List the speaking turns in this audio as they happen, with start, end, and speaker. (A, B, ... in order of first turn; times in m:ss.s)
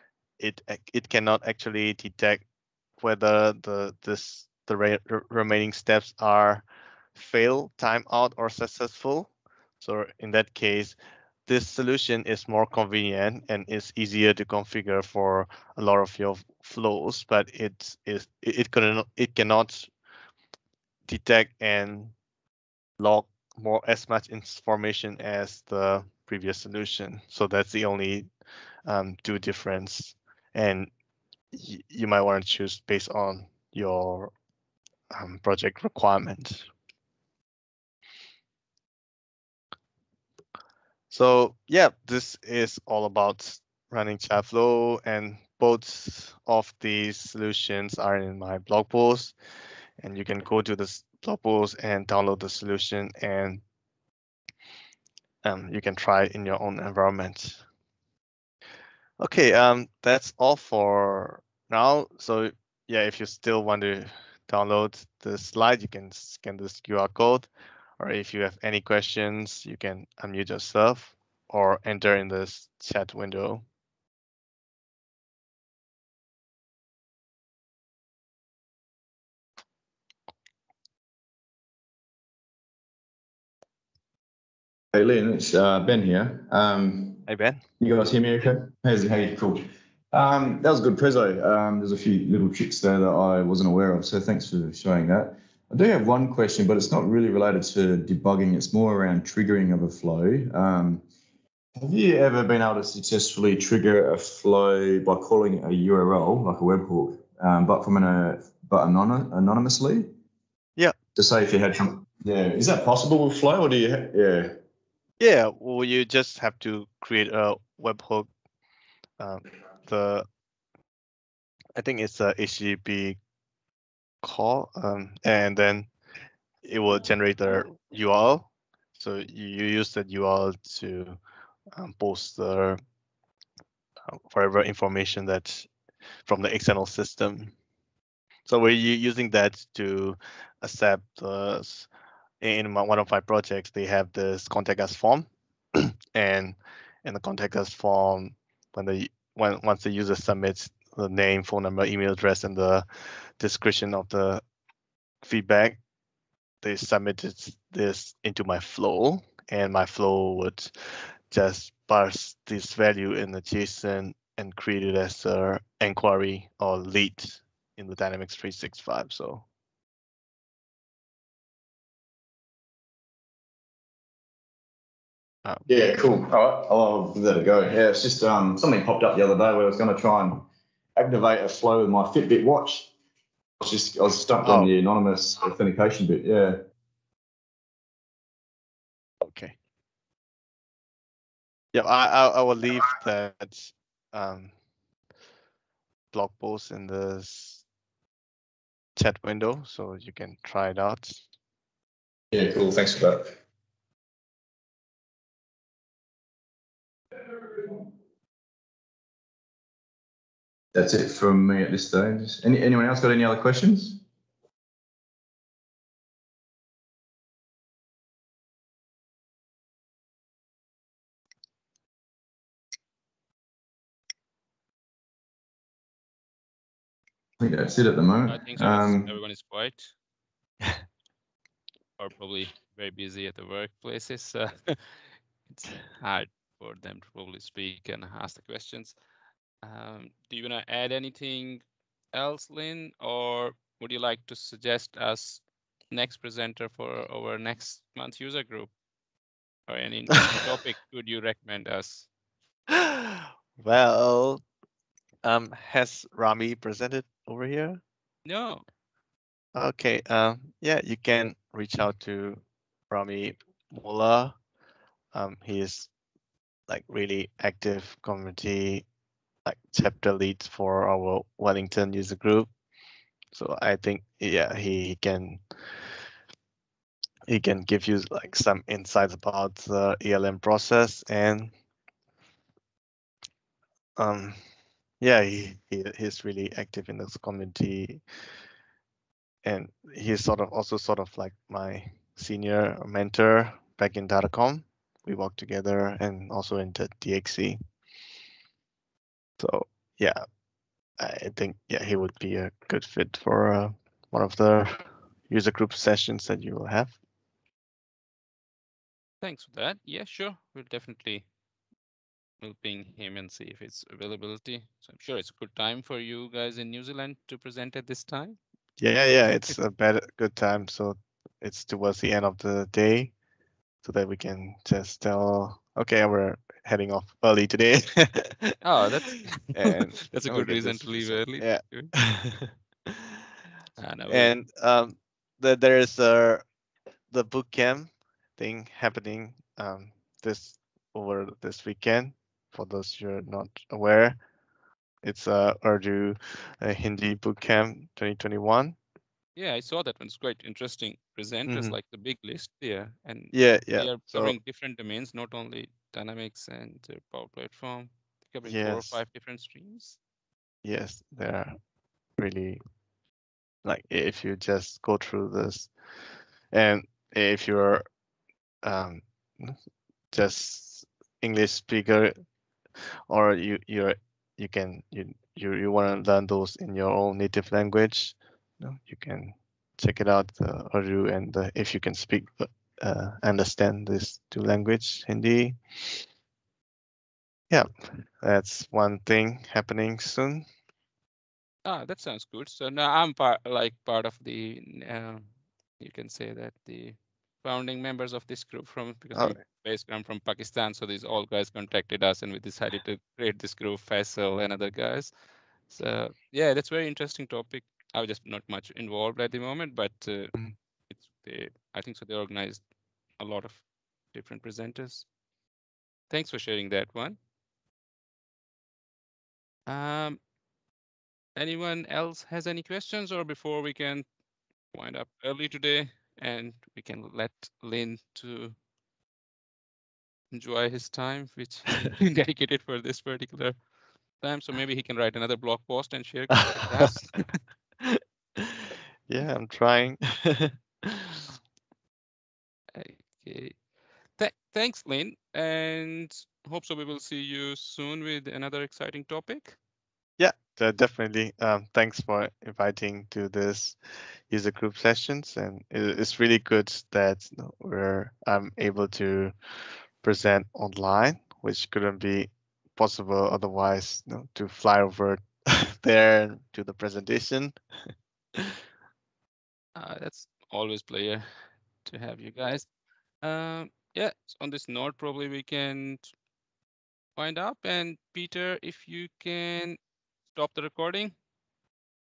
0:00.4-0:02.4 A
0:03.0-0:11.0 A
0:11.5-0:19.9 A
0:21.1-0:22.1 A
0:23.0-0:28.3 A
0:28.9-0:30.9 A
0:31.5-0:34.3 A
0:35.1-0:36.7 A
0:41.1-0:49.3 A
0:50.0-0:53.6 A
0:55.4-0:57.6 A
0:59.2-1:07.5 A
1:08.0-1:13.6 A
1:24.9-1:27.2 B
1:27.3-1:27.6 A
1:27.8-1:41.0 B
1:41.8-1:50.1 B
1:51.2-1:54.5 B
1:55.2-1:58.3 A
1:59.2-2:00.3 A
2:01.8-2:03.2 A
2:04.2-2:05.9 A
2:06.6-2:11.2 A
2:11.8-2:12.8 A
2:14.1-2:15.7 A
2:16.3-2:17.5 A
2:18.5-2:21.9 A
2:22.4-2:32.8 A
2:33.4-2:34.4 A
2:35.2-2:35.8 A
2:36.6-2:40.7 A
2:41.3-2:49.4 A
2:55.7-3:02.9 B
3:03.6-3:06.6 B
3:04.4-3:04.7 A
3:09.2-3:09.6 A
3:11.7-3:14.5 A
3:16.1-3:17.6 A
3:19.0-3:21.2 A
3:22.3-3:23.3 B
3:30.7-3:34.0 B
3:47.4-3:49.1 B
3:48.3-3:49.9 C
3:52.0-3:59.0 C
3:59.6-4:08.7 C
4:09.7-4:12.1 C
4:12.7-4:14.4 A
4:15.2-4:17.8 A
4:18.2-4:18.6 C
4:19.6-4:24.4 A
4:25.1-4:25.9 A
4:26.7-4:28.9 A
4:29.4-4:32.5 A
4:33.3-4:35.4 A
4:37.3-4:41.5 A
4:44.0-4:44.4 A
4:45.0-4:48.0 A
4:49.4-4:57.6 A
4:59.4-5:00.2 A
5:01.0-5:07.0 A
5:09.2-5:11.3 C
5:12.4-5:18.4 C
5:18.8-5:23.1 A
5:23.8-5:28.6 A
5:28.6-5:31.9 C
5:29.5-5:32.5 A
5:33.8-5:34.3 C
5:34.1-5:36.4 A
5:37.1-5:44.2 A
5:45.0-5:48.8 A
5:49.4-6:00.0 C
5:51.5-5:51.8 A
5:53.3-5:54.4 A
5:58.4-5:59.0 A
6:00.6-6:01.5 A
6:02.2-6:02.6 A
6:03.6-6:05.7 A
6:06.5-6:07.8 A
6:08.6-6:09.6 A
6:10.1-6:12.2 A
6:13.1-6:26.0 A
6:28.2-6:30.5 A
6:31.6-6:35.3 C
6:35.8-6:45.1 C
6:45.7-6:52.6 C
6:53.2-6:53.6 C
6:54.1-6:55.1 C
6:56.1-6:57.2 C
6:59.7-7:00.2 C
7:01.4-7:04.1 C
7:04.7-7:08.6 C
7:10.3-7:13.6 C
7:14.2-7:17.4 C
7:16.6-7:16.9 A
7:17.8-7:21.2 A
7:22.8-7:23.6 C
7:24.2-7:29.6 C
7:30.2-7:33.8 A
7:34.3-7:39.3 A
7:40.0-7:47.6 A
7:49.8-7:51.3 C
7:51.9-7:52.7 C
7:53.2-7:56.1 C
7:57.2-7:59.8 C
8:00.3-8:01.1 C